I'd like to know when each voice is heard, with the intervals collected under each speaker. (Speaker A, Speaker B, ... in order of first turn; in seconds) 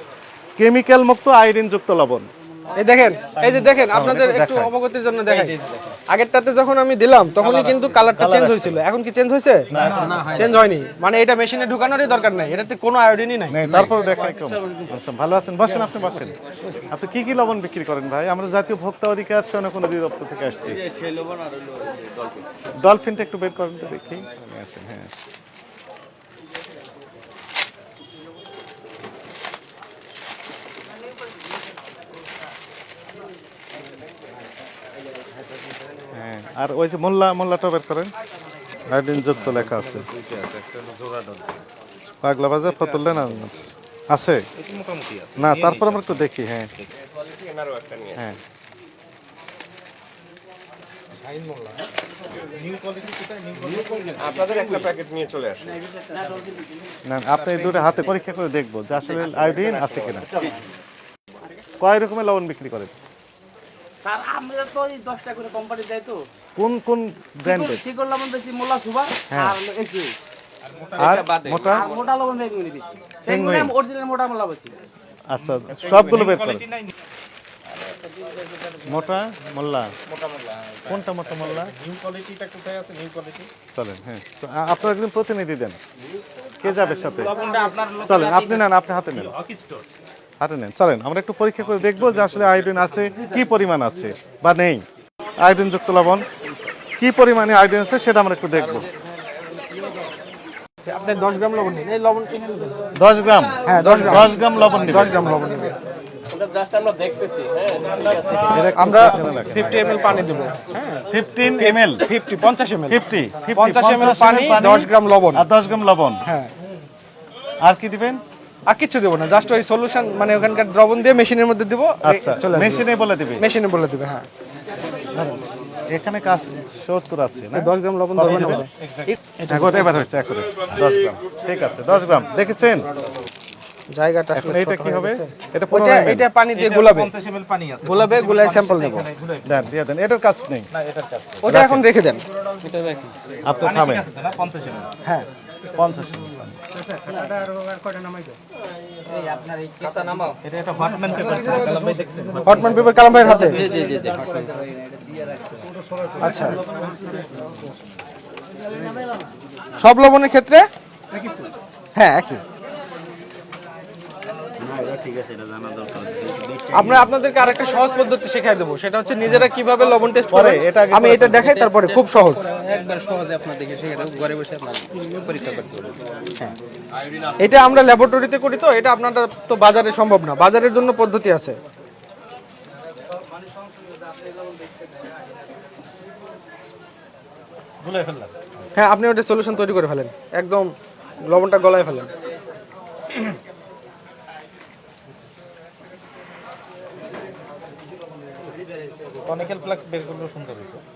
Speaker A: 0.6-2.3, 3.9-4.7, 8.1-8.8, 9.7-10.3, 13.5-20.9, 22.8-25.1, 36.1-38.1, 38.9-40.1, 42.2-44.5, 45.4-46.7, 48.1-48.4, 57.1-60.3, 61.8-62.9, 66.6-67.8, 69.3-69.6, 71.0-71.9, 73.3-73.8, 75.3-76.6, 78.9-79.9, 80.9-81.7, 83.7-85.8, 86.6-87.3, 88.0-89.3, 90.4-94.8, 95.4-96.3, 97.0-98.9, 103.0-105.4, 108.1-110.0, 111.1-112.0, 112.9-116.2, 117.6-118.2, 122.0-123.5, 125.9-128.7, 129.5-132.9, 134.3-136.3, 139.5-140.7, 141.5-141.9, 143.4-144.1, 145.7-146.6, 170.3-171.5
Speaker B: 2.8-5.6, 6.1-9.7, 10.3-13.9, 73.5-74.7, 100.8-102.9, 103.7-105.8, 108.5-111.1, 111.6-113.0, 113.5-115.5, 116.2-116.5, 118.7-124.3, 127.5-130.0, 133.9-137.1, 137.8-139.1, 141.4-142.2, 152.4-153.7, 156.2-156.7, 159.8-160.7, 161.9-162.4, 166.7-172.5, 177.4-181.6, 188.8-190.7, 191.2-192.1
Speaker C: 3.3-3.9, 5.3-6.0, 7.4-8.1, 20.8-22.4, 39.3-41.6, 42.7-43.5, 44.5-46.9, 52.4-55.0, 70.7-72.1, 75.5-76.9, 80.1-83.5, 87.0-89.8, 91.7-93.2, 107.8-108.2, 128.7-129.2, 136.5-139.6, 140.7-141.6, 143.6-144.9, 149.2-153.8, 164.7-166.9, 187.8-188.3, 199.2-200.8
Speaker D: 9.8-10.8, 106.4-107.6, 142.6-143.2, 153.4-154.6, 171.4-176.0
Speaker E: 47.4-48.1, 54.2-55.8, 59.7-60.0, 64.2-64.7, 68.3-68.6, 72.3-72.7